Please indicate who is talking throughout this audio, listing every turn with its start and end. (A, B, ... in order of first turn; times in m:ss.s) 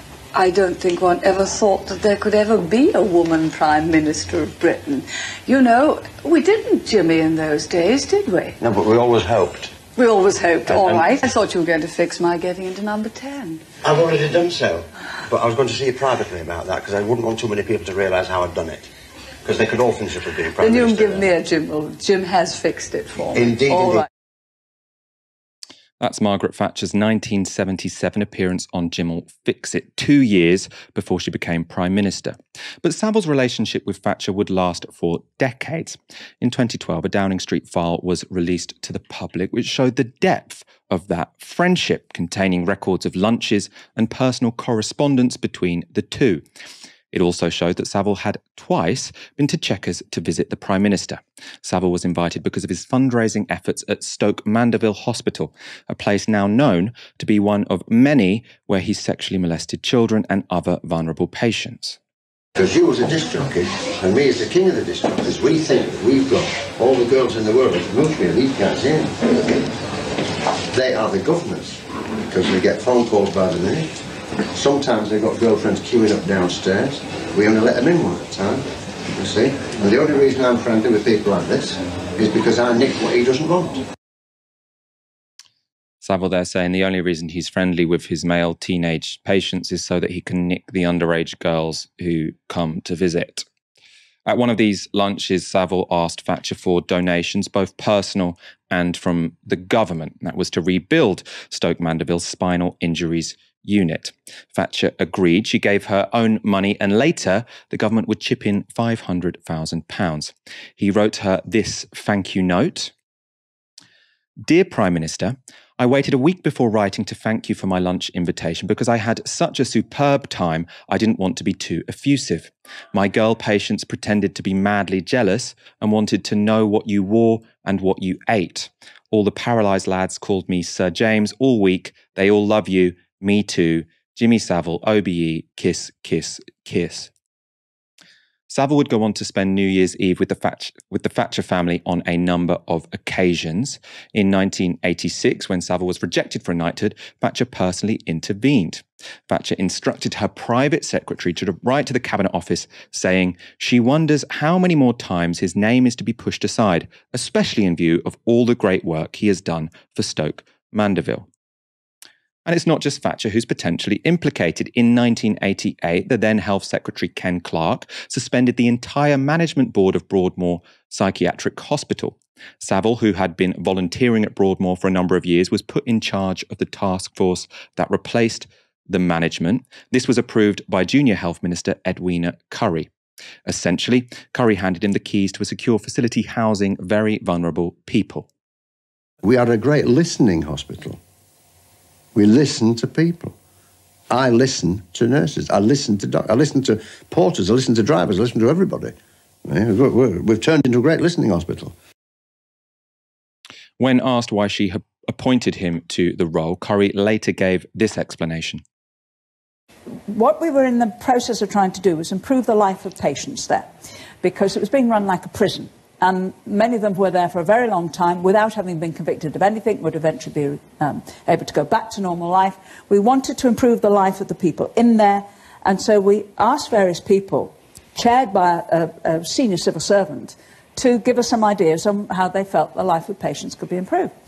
0:00.3-0:08.6 A
0:08.6-0:09.7 B
0:09.9-0:13.6 A
0:10.7-0:11.1 B
0:13.8-0:18.9 B
0:19.4-0:21.3 B
0:20.6-0:24.0 A
0:23.3-0:24.0 B
0:26.0-0:46.4 C
0:47.1-1:02.0 C
1:02.6-1:09.2 B
1:10.7-1:13.9 B
1:14.5-1:23.8 B
1:26.0-1:33.4 C
1:34.2-1:52.9 C
1:54.4-2:17.1 C
2:18.5-2:41.3 C
2:42.4-3:02.9 C
3:03.4-3:08.3 C
3:09.2-3:11.0 B
3:12.1-3:13.3 B
3:14.1-3:21.7 B
3:23.8-3:28.6 C
3:30.1-3:54.1 D